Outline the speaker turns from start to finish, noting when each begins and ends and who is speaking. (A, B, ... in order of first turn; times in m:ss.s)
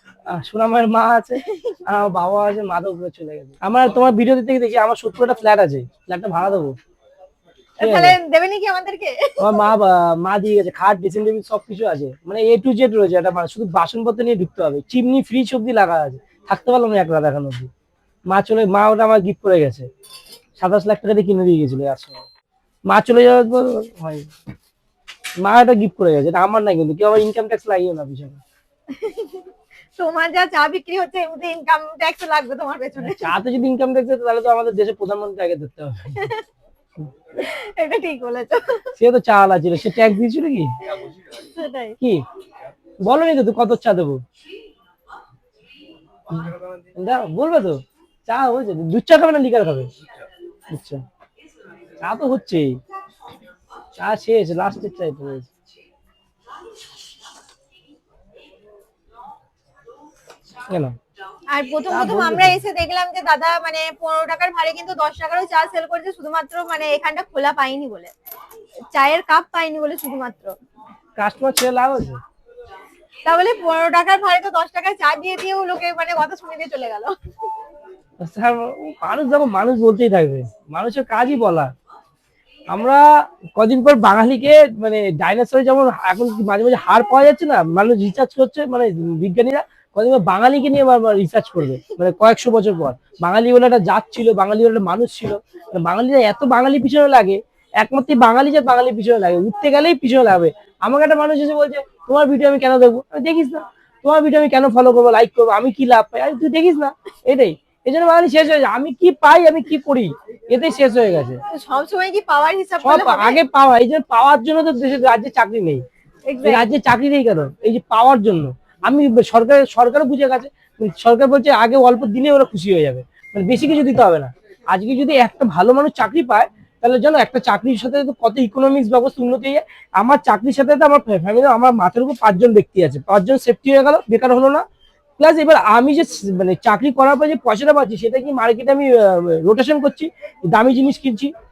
0:00.3-0:06.8 A
0:01.4-0:01.8 B
0:07.8-0:09.6 B
0:07.8-0:08.2 A
0:09.4-0:17.7 A
0:18.3-0:19.9 A
0:20.6-0:22.2 A
0:22.9-0:24.3 A
0:25.4-0:28.4 A
0:28.9-0:29.5 B
0:30.0-0:33.3 B
0:33.0-0:36.3 A
0:36.2-0:36.4 B
0:37.4-0:38.9 B
0:39.0-0:40.7 A
0:41.3-0:42.0 B
0:43.0-0:44.2 A
0:46.3-0:49.9 A
0:50.7-0:51.0 A
0:52.0-0:52.8 A
0:54.0-0:55.5 A
1:00.7-1:00.9 A
1:01.5-1:08.1 B
1:01.9-1:02.6 A
1:08.9-1:10.5 B
1:11.2-1:12.2 A
1:13.2-1:17.2 B
1:18.2-1:21.7 A
1:22.7-1:23.0 A
1:23.6-1:51.4 A
1:51.5-1:53.4 B
1:52.8-1:55.8 A
1:56.3-1:56.7 B
1:56.4-2:14.6 A
2:15.2-2:21.3 A